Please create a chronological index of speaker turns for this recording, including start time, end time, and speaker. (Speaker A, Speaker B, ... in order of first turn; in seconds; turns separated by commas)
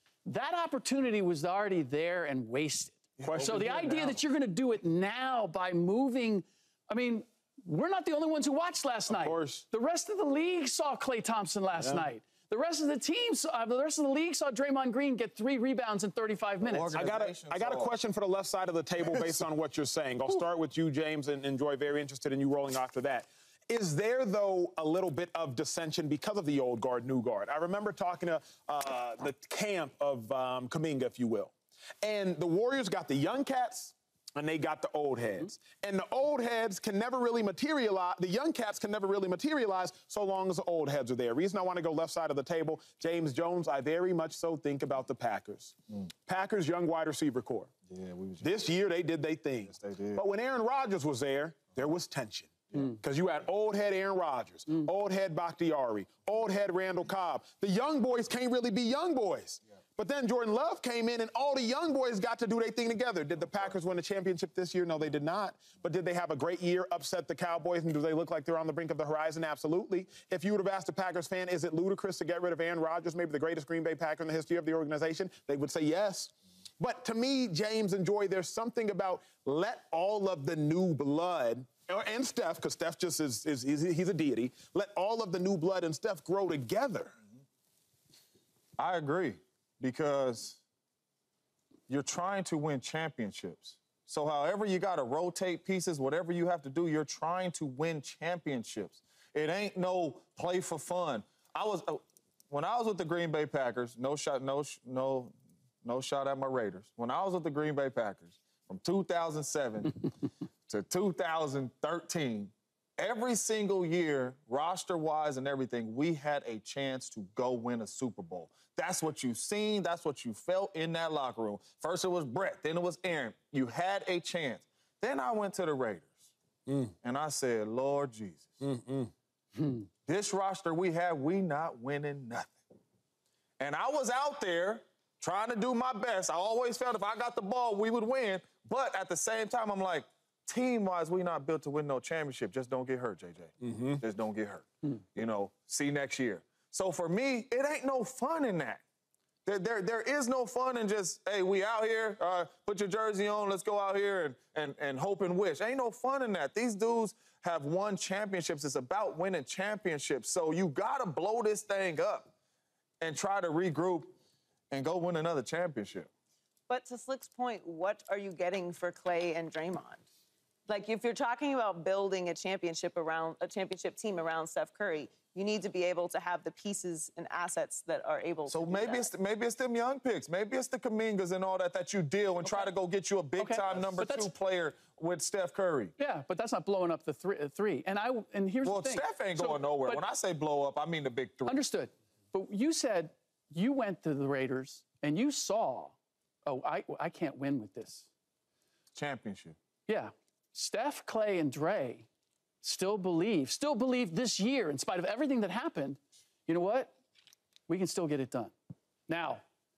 Speaker A: 0.2-17.0, Speaker B: 3.2-4.2, Speaker C: 9.1-9.7, Speaker C: 11.8-12.1, Speaker B: 16.6-18.0, Speaker C: 16.9-47.7, Speaker B: 47.9-48.5, Speaker C: 48.4-87.2, Speaker B: 49.8-50.2, Speaker B: 88.8-90.6, Speaker B: 91.9-110.1, Speaker B: 110.7-126.3, Speaker C: 126.7-126.9, Speaker B: 127.0-128.6, Speaker C: 128.6-129.1, Speaker B: 130.1-132.6, Speaker B: 133.6-148.8, Speaker C: 143.7-144.0, Speaker B: 149.5-162.3, Speaker B: 163.0-164.2, Speaker B: 164.7-166.1, Speaker D: 166.7-170.0, Speaker D: 170.7-179.1, Speaker B: 178.5-185.9, Speaker A: 182.4-182.7, Speaker A: 183.4-184.3, Speaker A: 186.0-190.0, Speaker B: 188.6-191.6, Speaker A: 191.5-198.1, Speaker B: 198.9-199.6, Speaker A: 199.9-202.1, Speaker A: 202.6-206.9, Speaker A: 207.7-208.5, Speaker A: 209.1-209.4